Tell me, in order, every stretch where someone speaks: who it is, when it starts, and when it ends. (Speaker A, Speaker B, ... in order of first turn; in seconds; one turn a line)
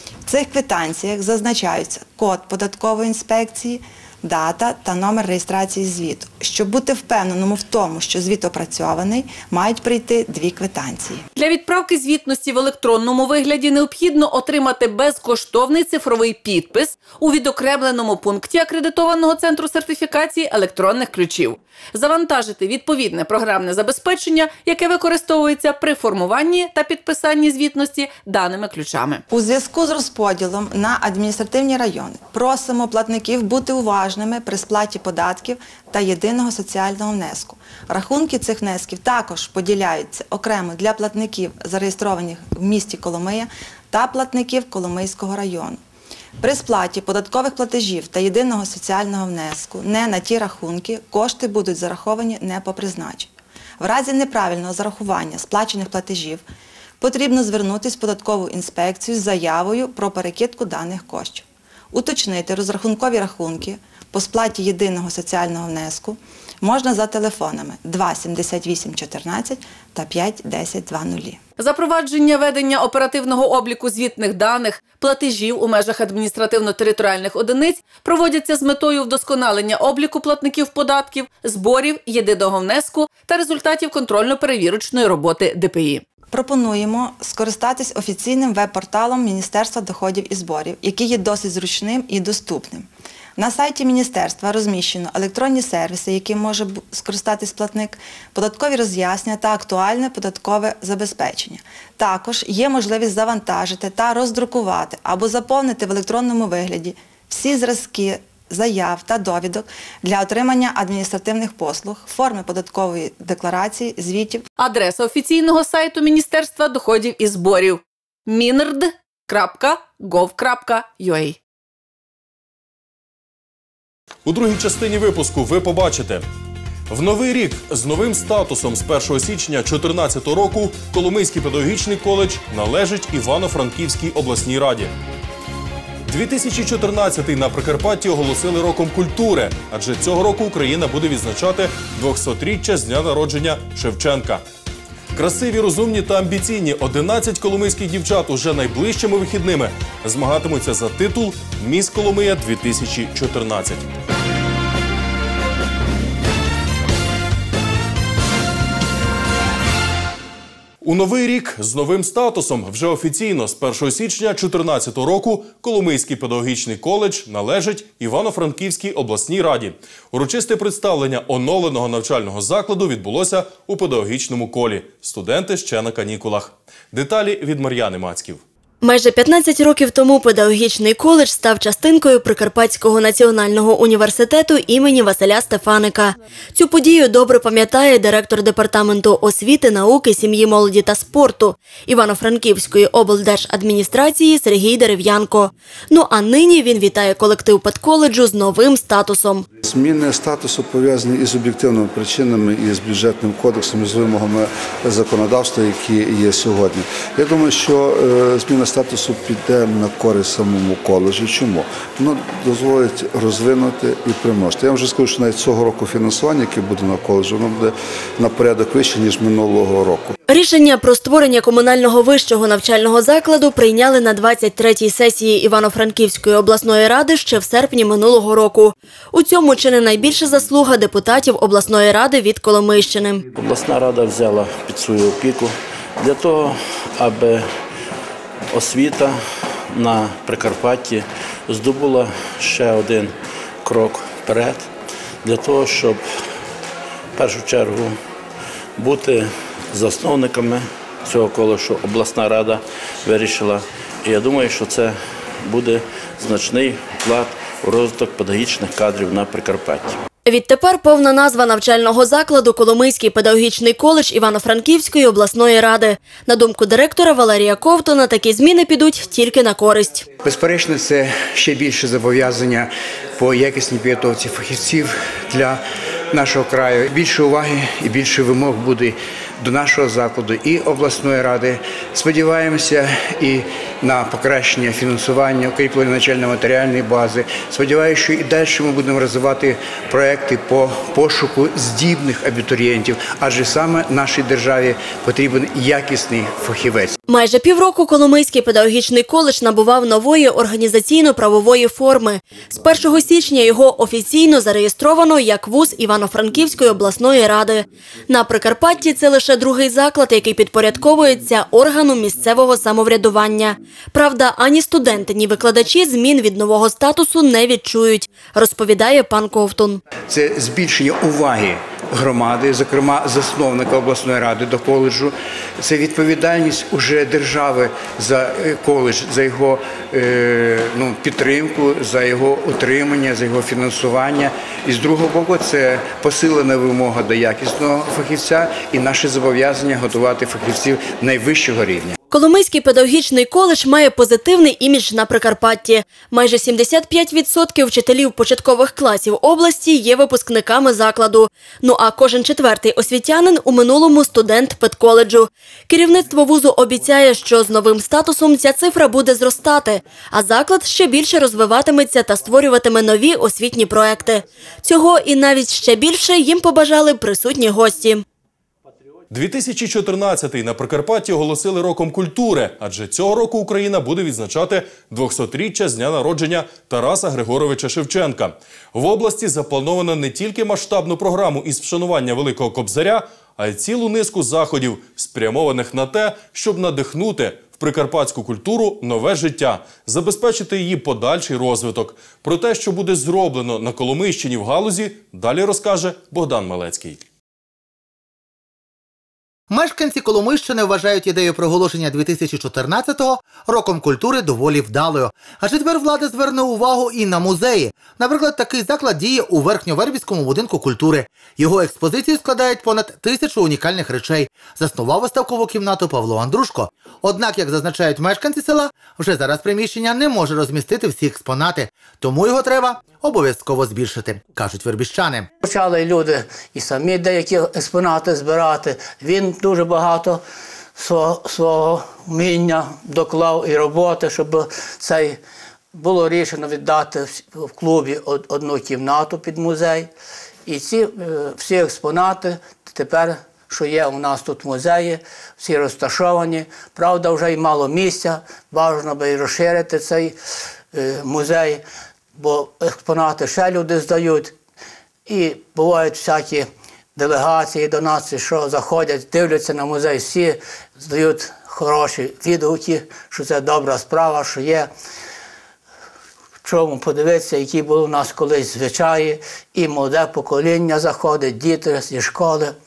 Speaker A: 0.3-11.2
Speaker B: 11.3-29.2
Speaker A: 29.3-45.8
Speaker A: 46.4-56.4
Speaker A: 57.0-71.4
Speaker B: 71.6-86.0
Speaker A: 86.3-114.4
Speaker B: 114.6-121.4
Speaker C: 124.2-126.2
Speaker C: 126.9-134.9
Speaker C: 136.1-144.4
Speaker C: 145.1-153.8
Speaker C: 160.8-178.4
Speaker D: 178.8-199.5
Speaker E: 199.6-220.2
Speaker D: 220.3-233.2
Speaker F: 233.3-237.5
Speaker F: 238.5-244.7
Speaker F: 245.2-246.0
Speaker F: 247.2-248.0
Speaker F: 248.8-260.0
Speaker D: 260.2-270.1
Speaker G: 270.2-297.0
Speaker D: 297.1-319.8
Speaker G: 320.1-341.9
Speaker D: 342.1-368.0
Speaker C: 369.1-397.0
Speaker H: 399.5-425.3
Speaker I: 425.4-430.2
Speaker I: 430.8-435.2
Speaker I: 435.7-439.9
Speaker I: 440.4-450.1
Speaker I: 450.7-451.6
Speaker I: 452.1-454.3
Speaker I: 455.1-464.7
Speaker I: 466.4-472.5